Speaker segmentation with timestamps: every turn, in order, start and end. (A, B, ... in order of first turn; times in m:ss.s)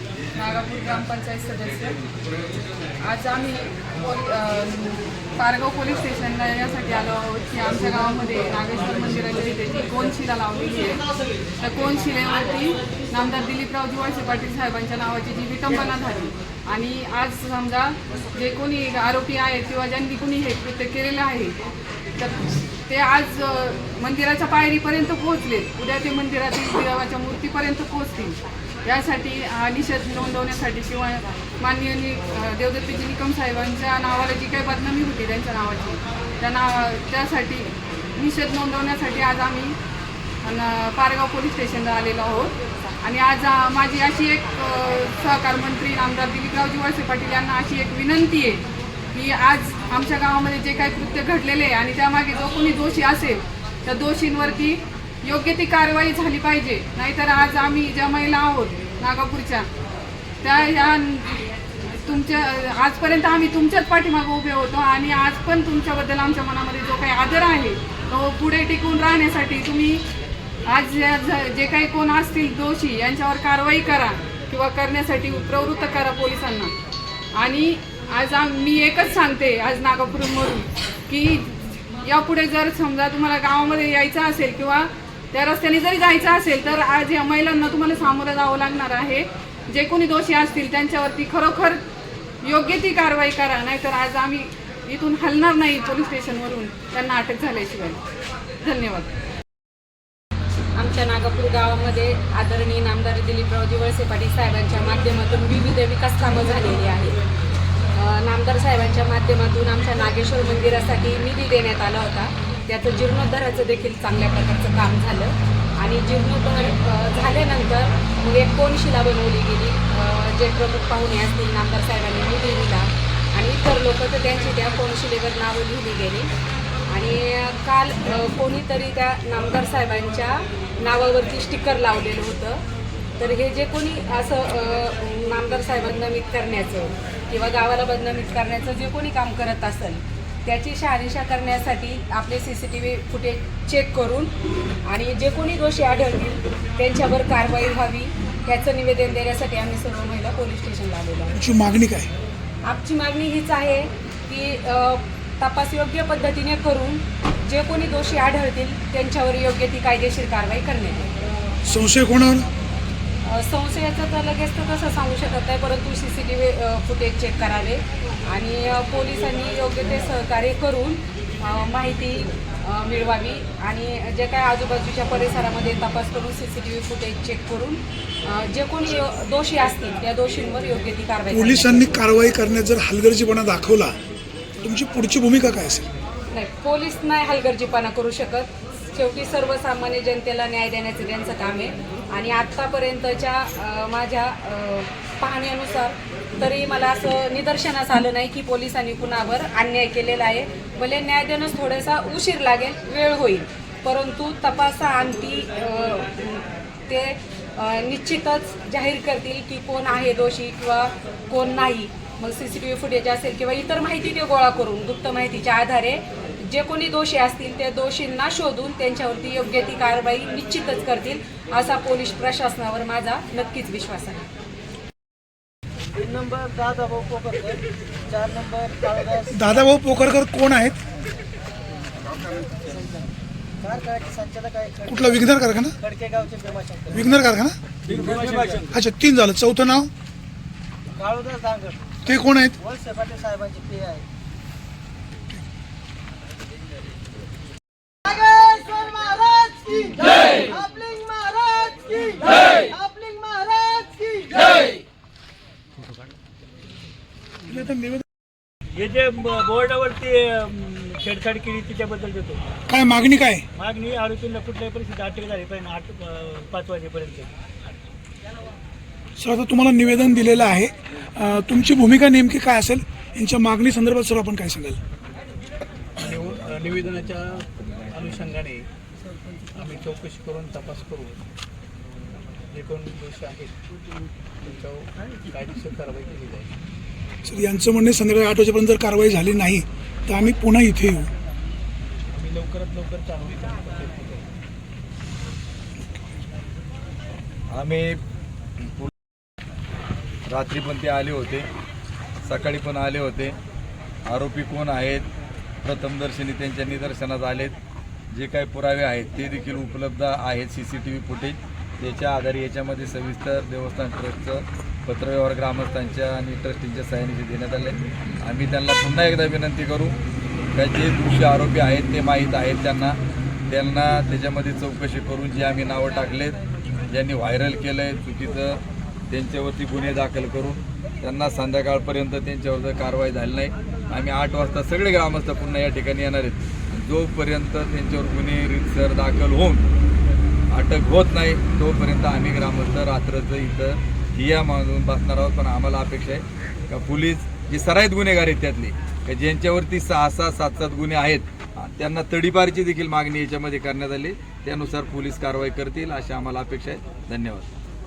0:00.4-0:02.0 A
0:03.0-0:11.0 A
0:11.6-0:21.6 A
0:22.2-0:39.8 A
0:40.4-0:48.6 A
0:49.1-0:59.7 A
1:00.4-1:01.4 A
1:02.0-1:10.0 A
1:10.7-1:16.7 A
1:17.4-1:31.8 A
1:32.4-1:38.0 A
1:38.6-1:39.1 A
1:40.8-1:47.2 B
1:47.9-2:06.3 B
2:06.9-2:12.6 B
2:13.2-2:24.3 B
2:24.8-2:31.4 B
2:31.4-2:32.1 C
2:32.6-2:41.1 B
2:41.6-2:42.5 C
2:43.2-3:01.9 B
3:01.3-3:03.9 C
3:04.6-3:05.9 C
3:06.3-3:44.3 B
3:46.0-3:49.3 D
3:49.3-3:50.8 C
3:53.6-3:55.2 D
3:54.9-3:55.8 C
3:55.8-3:57.0 D
3:56.9-3:57.6 C
3:57.9-3:58.7 E
3:58.7-3:59.9 C
4:01.0-4:01.8 D
4:02.0-4:02.6 C
4:02.6-4:04.0 D
4:08.1-4:14.3 D
4:14.4-4:14.7 E
4:17.5-4:18.0 C
4:18.8-4:22.4 E
4:22.7-4:23.4 C
4:23.6-4:27.3 E
4:29.2-4:34.8 C
4:36.0-4:38.7 F
4:39.5-4:41.2 F
4:42.5-4:43.5 F
4:44.4-4:46.5 F
4:47.2-4:51.1 C
4:52.1-4:54.3 F
4:57.5-4:58.0 G
4:58.6-4:58.9 G
5:00.3-5:01.5 G
5:02.2-5:03.4 G
5:04.0-5:05.1 G
5:05.6-5:07.6 G
5:08.1-5:20.0 G
5:20.6-5:23.0 G
5:23.5-5:26.4 G
5:26.9-5:39.6 G
5:40.5-5:57.5 G